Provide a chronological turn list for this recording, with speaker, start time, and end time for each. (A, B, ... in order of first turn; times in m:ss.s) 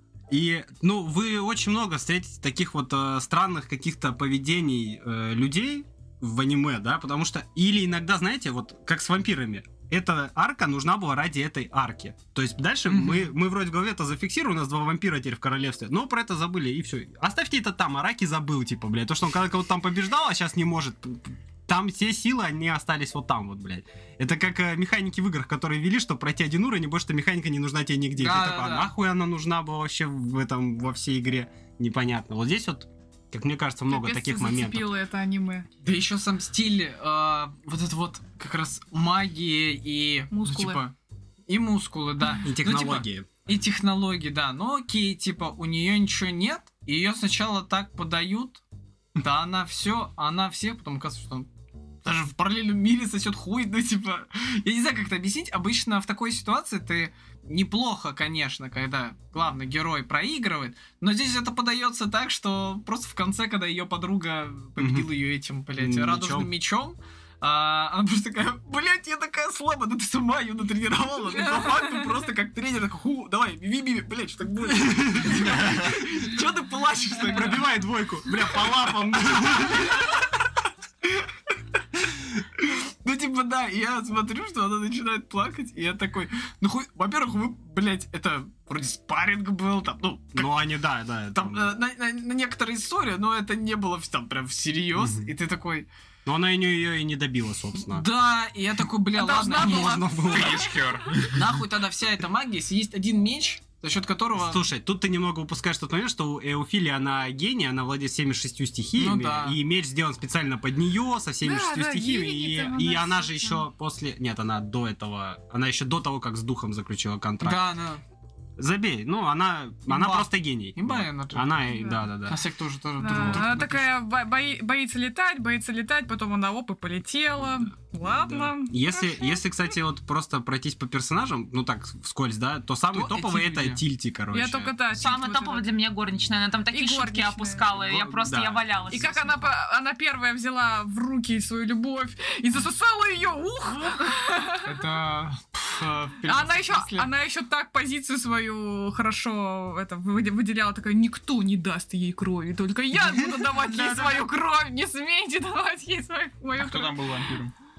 0:00.3-0:35.0 A
0:12.9-0:13.3 B
0:28.2-0:28.9 B
0:33.9-0:35.7 C
0:35.8-0:40.9 B
0:40.3-0:40.8 C
0:41.5-0:48.6 B
0:42.4-0:43.3 A
0:49.2-0:51.5 B
0:52.0-1:17.7 B
1:04.8-1:05.1 A
1:05.8-1:06.5 A
1:14.8-1:15.9 A
1:17.2-1:20.2 A
1:22.6-1:30.5 B
1:30.3-1:31.7 A
1:31.3-1:35.9 B
1:35.0-1:35.3 A
1:36.2-1:38.1 A
1:37.9-1:40.1 B
1:39.1-1:40.8 C
1:39.5-1:40.7 A
1:40.2-1:41.4 D
1:41.2-1:44.6 B
1:44.3-1:57.7 A
1:49.0-1:49.6 B
1:51.4-1:53.6 C
1:57.4-1:58.0 B
1:58.6-2:02.4 A
1:59.9-2:01.7 B
2:01.7-2:02.0 C
2:02.3-2:03.9 B
2:03.0-2:09.4 C
2:03.2-2:03.4 A
2:08.1-2:14.7 A
2:12.9-2:13.8 B
2:14.3-2:15.7 C
2:14.9-2:19.5 E
2:16.7-2:17.7 C
2:17.8-2:19.0 A
2:18.9-2:24.8 C
2:24.6-2:27.1 B
2:26.2-2:37.0 C
2:33.0-2:34.2 A
2:36.5-2:37.5 D